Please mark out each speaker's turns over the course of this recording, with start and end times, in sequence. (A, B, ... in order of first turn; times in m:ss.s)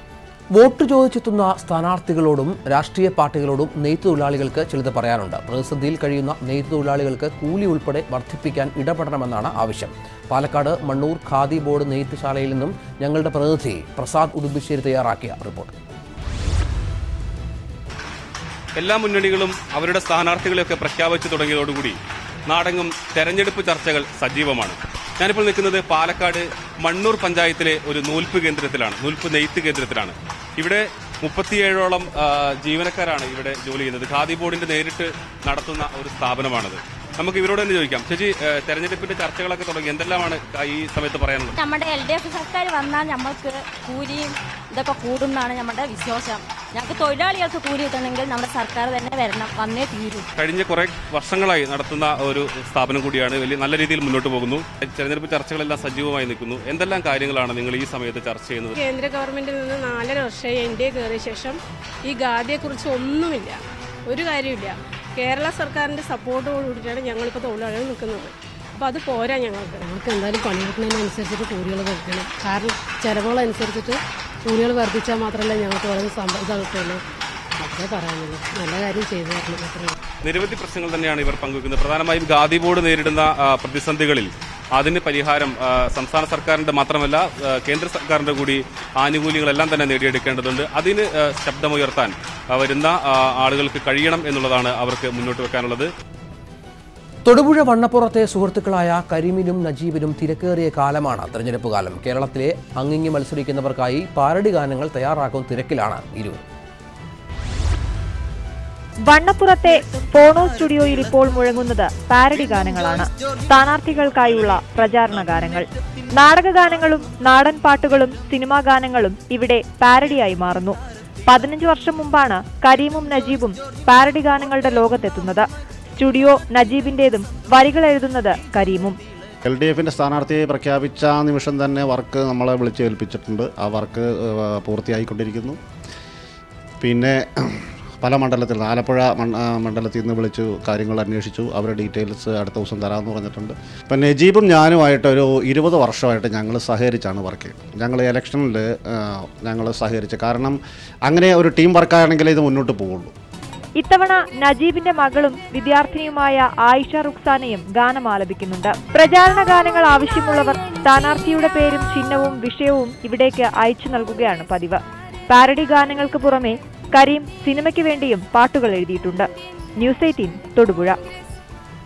0:00.5-0:15.7 A
0:18.8-0:22.0 B
0:22.5-0:41.6 B
0:41.6-0:50.2 C
0:50.4-0:58.7 B
0:58.8-1:09.8 D
1:09.9-1:17.0 E
1:17.6-1:19.9 E
1:20.2-1:35.9 B
1:37.2-1:46.4 A
1:49.1-2:05.4 F
2:06.0-2:09.0 F
2:09.5-2:15.6 G
2:16.8-2:17.2 G
2:18.0-2:28.6 G
2:29.4-2:30.6 G
2:31.1-2:33.1 G
2:33.8-2:49.3 F
2:49.8-2:51.0 F